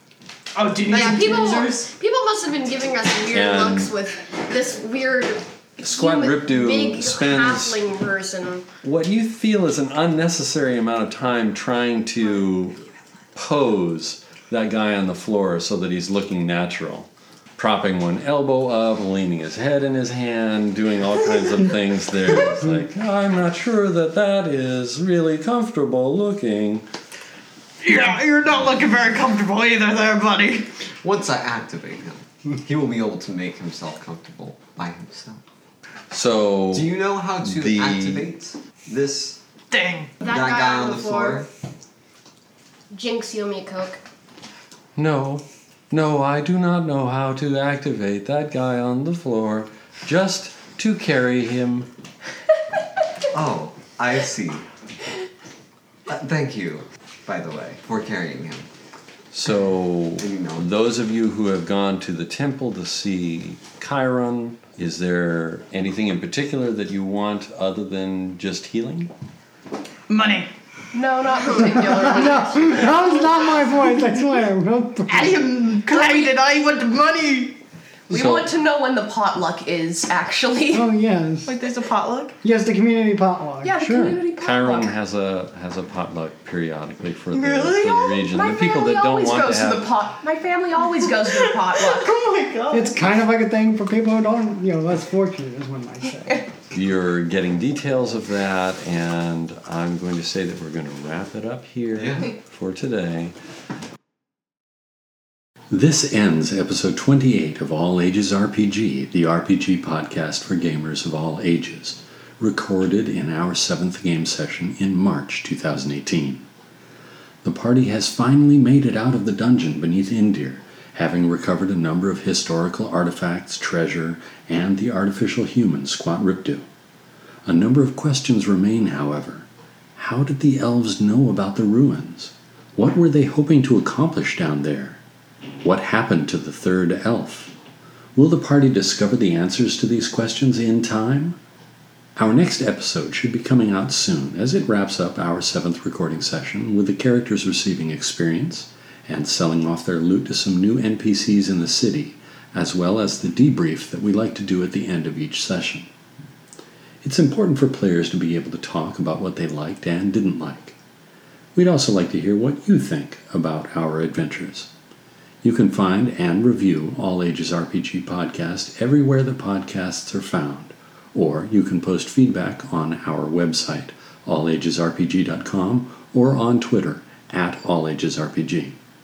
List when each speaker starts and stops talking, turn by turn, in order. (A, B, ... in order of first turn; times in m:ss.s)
0:00.5-0:01.9 A
0:00.9-0:08.7 B
0:03.3-0:03.9 C
0:05.8-0:07.8 C
0:08.8-0:12.8 C
0:13.4-0:26.9 C
0:27.8-0:30.7 A
0:31.0-0:35.4 D
0:36.1-0:38.3 C
0:36.7-0:39.4 D
0:39.7-0:40.1 A
0:40.2-0:41.4 B
0:40.2-0:41.5 D
0:42.9-0:44.0 B
0:45.0-0:51.9 C
0:53.3-0:54.6 D
0:56.1-0:58.7 D
0:59.3-1:09.1 C
1:00.2-1:00.7 D
1:10.1-1:10.5 A
1:10.9-1:13.5 E
1:11.7-1:15.5 F
1:15.1-1:17.6 A
1:15.9-1:16.3 E
1:18.1-1:20.9 E
1:18.1-1:18.5 C
1:20.7-1:21.5 F
1:21.4-1:22.4 A
1:22.4-1:23.8 F
1:23.6-1:25.0 E
1:23.8-1:29.9 C
1:27.3-1:28.2 A
1:28.3-1:32.2 E
1:31.0-1:33.1 A
1:32.7-1:36.5 F
1:36.7-1:43.3 C
1:42.0-1:42.3 D
1:45.7-1:56.4 C
1:57.4-2:06.6 C
2:07.5-2:15.0 C
2:15.6-2:17.6 C
2:18.2-2:21.4 C
2:22.2-2:35.9 C
2:37.0-2:40.8 C
2:41.6-2:44.7 C
2:45.4-2:58.8 C